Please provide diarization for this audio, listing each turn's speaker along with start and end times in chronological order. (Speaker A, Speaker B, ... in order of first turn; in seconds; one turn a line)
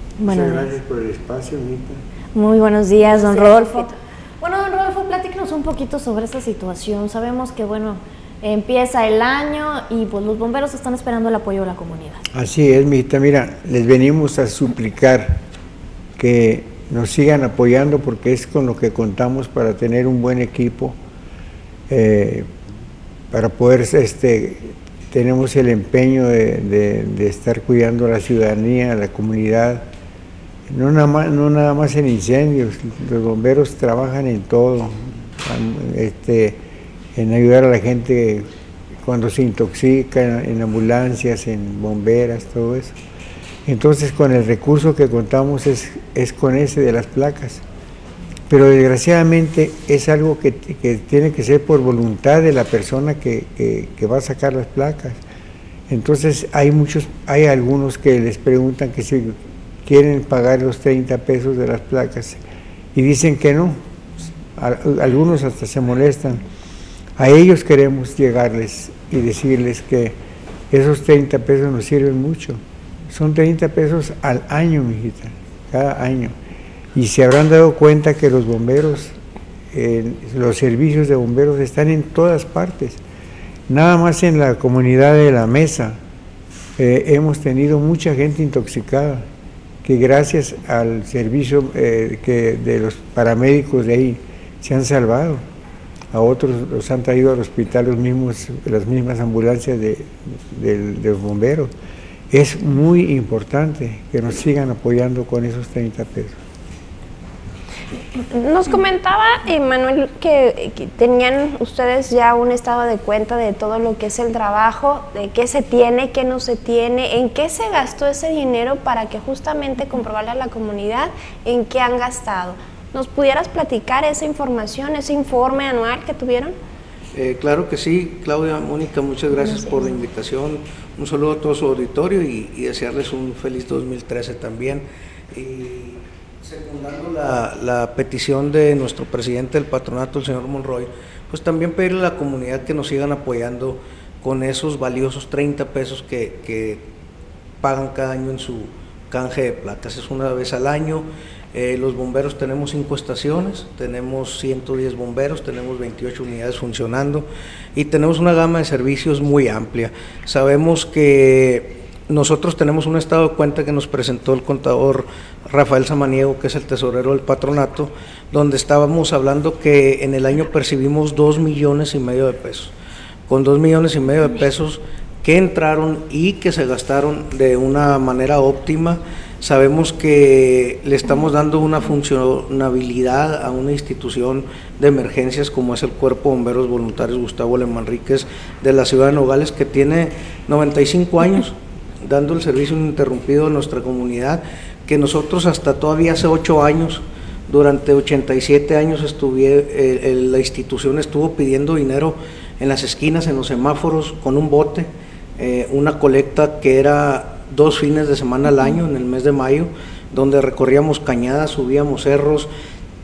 Speaker A: 0.2-0.7
Speaker B: 0.3-2.0
Speaker A: 2.3-12.2
Speaker C: 3.3-3.9
Speaker B: 12.3-15.4
Speaker B: 16.2-21.0
Speaker B: 21.9-22.5
Speaker B: 23.3-29.8
Speaker B: 30.7-36.6
Speaker B: 37.1-38.4
Speaker B: 39.0-43.0
Speaker B: 43.6-47.6
Speaker B: 48.5-55.2
Speaker B: 55.9-62.4
Speaker B: 62.9-63.8
Speaker B: 64.5-66.4
Speaker B: 67.2-70.2
Speaker B: 70.7-72.6
Speaker B: 73.1-76.3
Speaker B: 76.9-79.1
Speaker B: 79.7-83.0
Speaker B: 83.7-86.0
Speaker B: 86.8-89.2
Speaker B: 89.8-95.4
Speaker B: 96.1-101.7
Speaker B: 102.3-106.4
Speaker C: 108.3-126.5
Speaker D: 127.1-146.8
Speaker C: 129.4-129.7
Speaker D: 147.6-172.7
Speaker D: 173.3-212.5